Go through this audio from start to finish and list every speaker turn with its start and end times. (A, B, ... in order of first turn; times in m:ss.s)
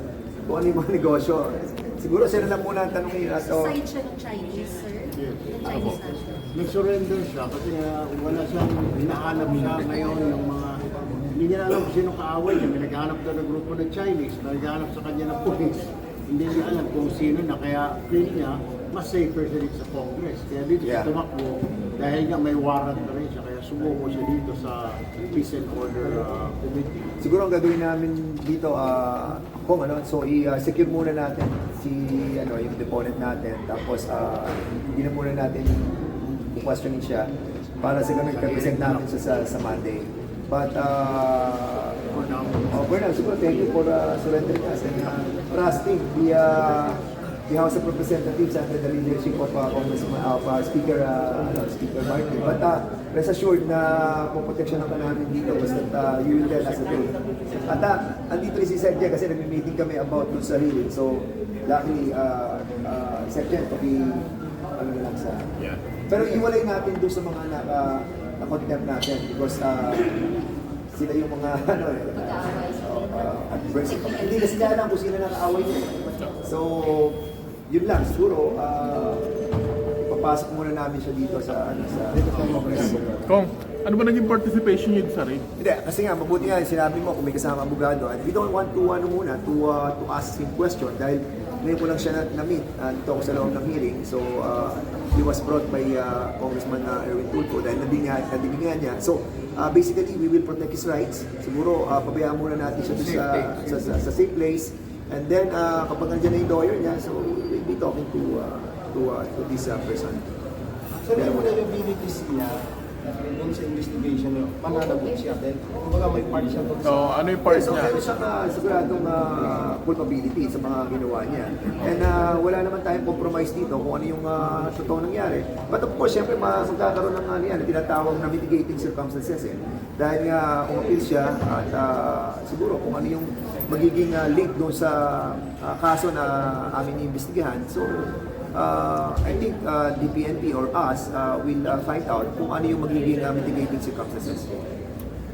0:00.4-0:03.7 A
0:03.2-0:06.5 B
0:05.1-0:05.6 C
0:06.5-0:27.1 C
0:20.8-0:21.1 A
0:27.2-0:42.0 A
0:37.9-0:39.1 C
0:42.1-0:43.0 C
0:42.7-1:05.4 A
0:56.7-0:57.6 C
1:06.1-1:10.4 A
1:10.9-1:19.3 A
1:12.2-1:14.6 B
1:20.0-1:23.2 A
1:22.1-1:23.4 D
1:22.7-1:25.4 E
1:25.6-1:50.3 A
1:42.9-1:43.9 C
1:51.0-1:57.3 D
1:51.1-1:51.6 A
1:56.8-1:58.0 E
1:57.4-2:24.6 A